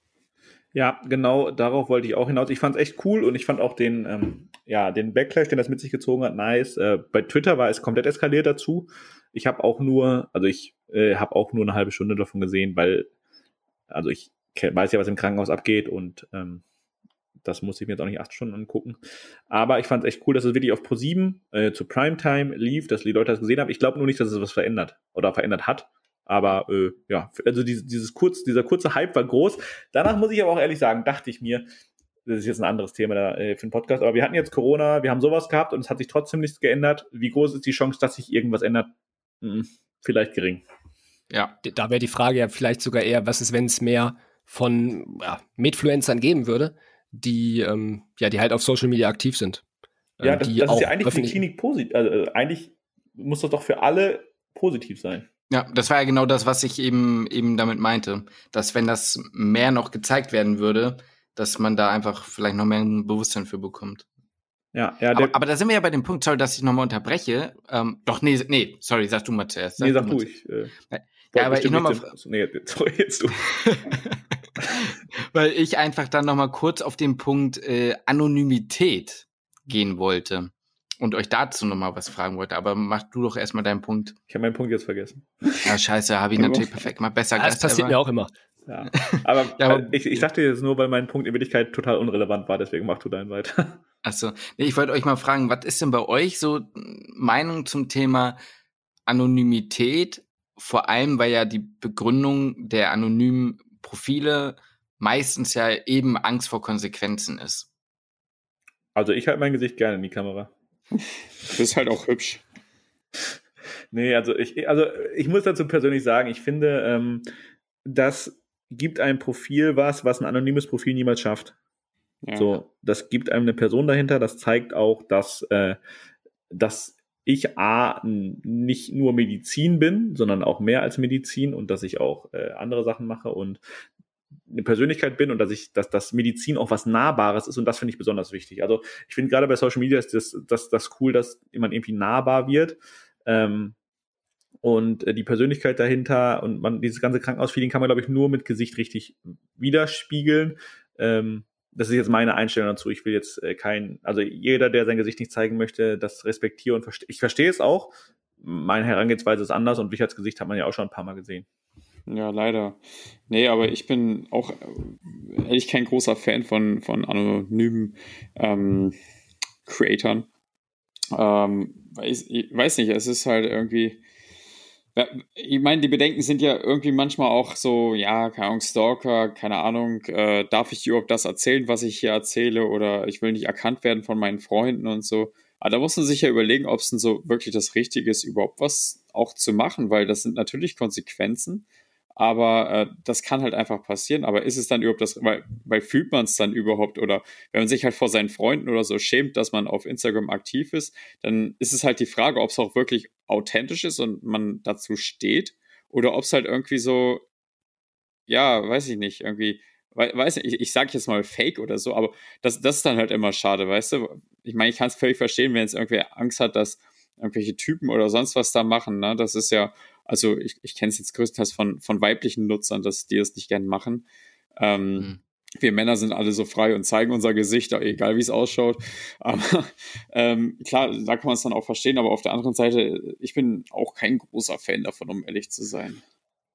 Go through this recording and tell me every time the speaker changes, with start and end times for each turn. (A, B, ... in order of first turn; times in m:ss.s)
0:00.7-0:13.1 A
0:13.9-0:16.6 A
0:17.4-0:31.6 A
0:32.2-0:40.6 A
0:41.6-0:49.6 B
0:50.2-0:51.4 B
0:50.2-0:55.2 A
0:55.5-1:04.0 C
1:04.7-1:05.4 A
1:05.1-1:10.2 C
1:09.8-1:10.7 A
1:10.9-1:12.1 C
1:11.3-1:13.7 A
1:13.6-1:24.2 C
1:24.3-1:25.8 A
1:25.6-1:28.0 C
1:27.4-1:28.3 B
1:28.7-1:33.8 A
1:28.9-1:30.2 C
1:34.0-1:38.4 C
1:39.1-1:47.7 C
1:48.9-1:50.5 A
1:51.5-1:52.4 D
1:53.9-1:57.3 A
1:57.8-2:01.5 A
2:02.2-2:02.6 D
2:02.4-2:05.8 A
2:06.5-2:13.6 A
2:14.5-2:23.7 A
2:24.6-2:41.4 A
2:42.1-2:48.9 D
2:49.7-2:50.3 D
2:51.1-2:54.0 D
2:54.9-3:11.6 D
3:12.2-3:27.2 D
3:28.3-3:44.0 D
3:44.6-3:56.0 D